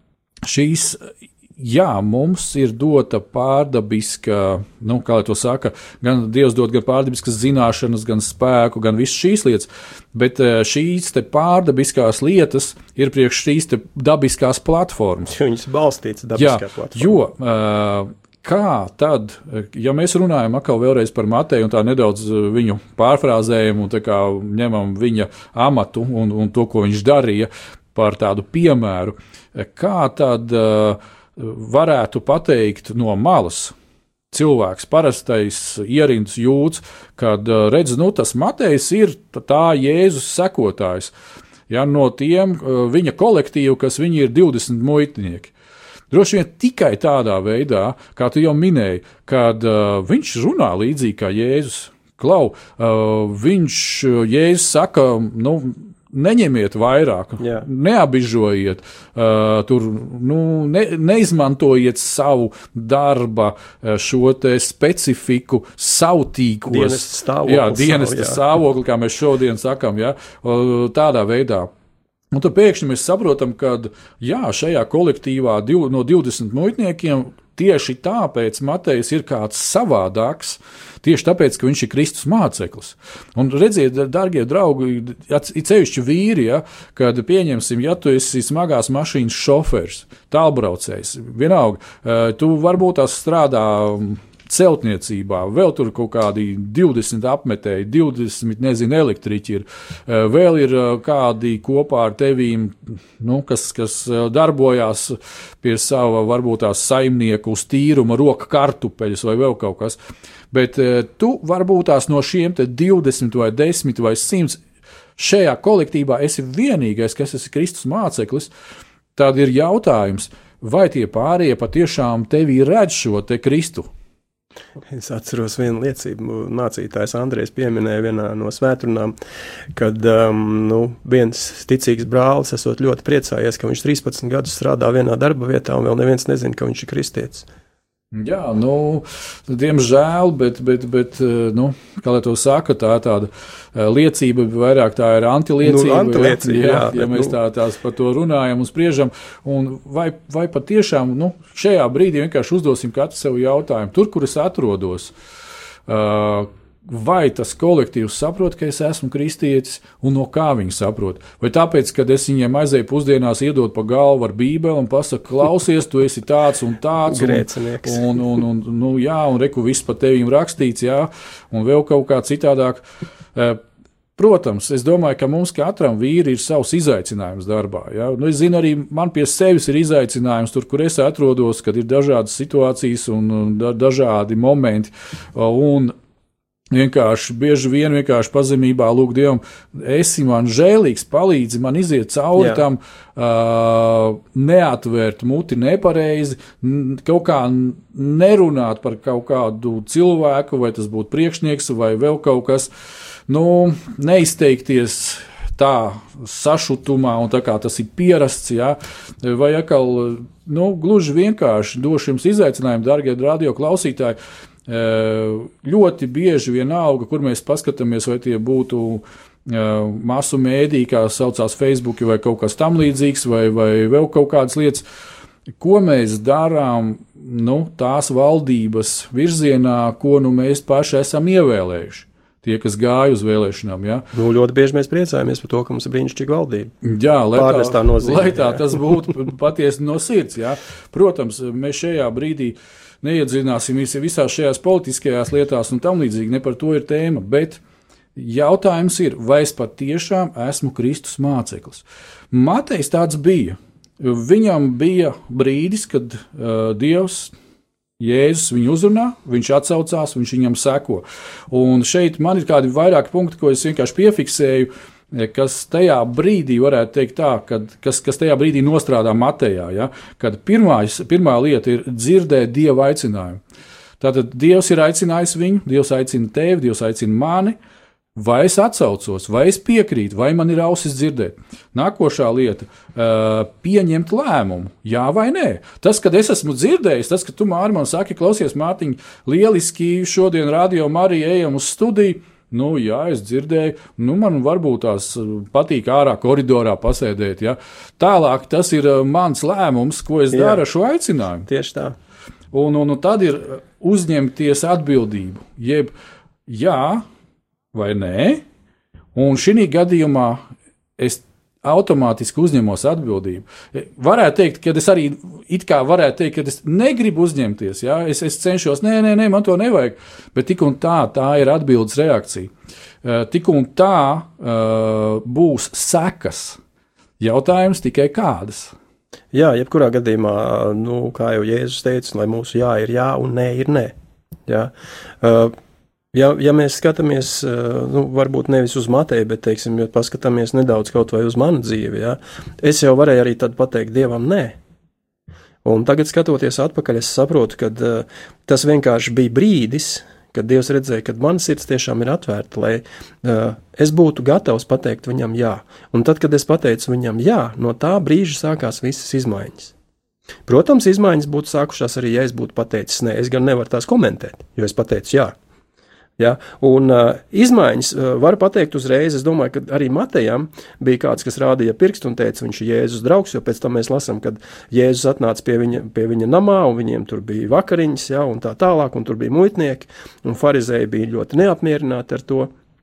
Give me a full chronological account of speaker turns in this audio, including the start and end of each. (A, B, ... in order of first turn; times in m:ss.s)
0:00.4-0:15.3 A
0:15.3-0:17.2 B
0:16.4-0:33.7 A
0:34.3-0:41.1 A
0:41.7-0:45.5 A
0:46.1-1:11.7 A
0:57.4-0:57.7 B
1:06.7-1:08.4 B
1:12.3-1:50.0 A
1:50.5-1:54.6 A
1:55.2-1:58.5 A
1:59.2-2:03.9 A
2:04.9-2:09.2 B
2:09.7-2:17.5 B
2:18.1-2:35.1 A
2:25.6-2:27.4 B
2:35.9-2:52.8 A
2:47.1-2:48.1 B
2:53.4-2:53.6 A
2:54.2-3:06.0 A
3:06.7-3:22.7 A
3:12.4-3:12.6 B
3:23.3-3:44.8 A
3:45.6-3:54.1 A
3:54.1-3:56.7 B
3:56.8-4:07.6 A
3:57.3-3:58.9 B
4:08.2-4:17.3 A
4:18.0-4:33.4 A
4:34.0-4:37.6 A
4:38.2-5:01.5 A
5:00.3-5:00.6 B
5:01.5-5:02.0 B
5:02.5-5:05.9 A
5:06.5-5:07.0 A
5:07.7-5:08.4 A
5:09.2-5:10.4 A
5:11.0-5:22.5 A
5:23.0-5:26.6 A
5:27.2-5:28.7 A
5:29.3-5:33.9 B
5:34.5-5:35.5 B
5:36.1-5:44.6 B
5:45.6-5:59.7 B
6:00.5-6:05.4 B
6:06.2-6:22.5 B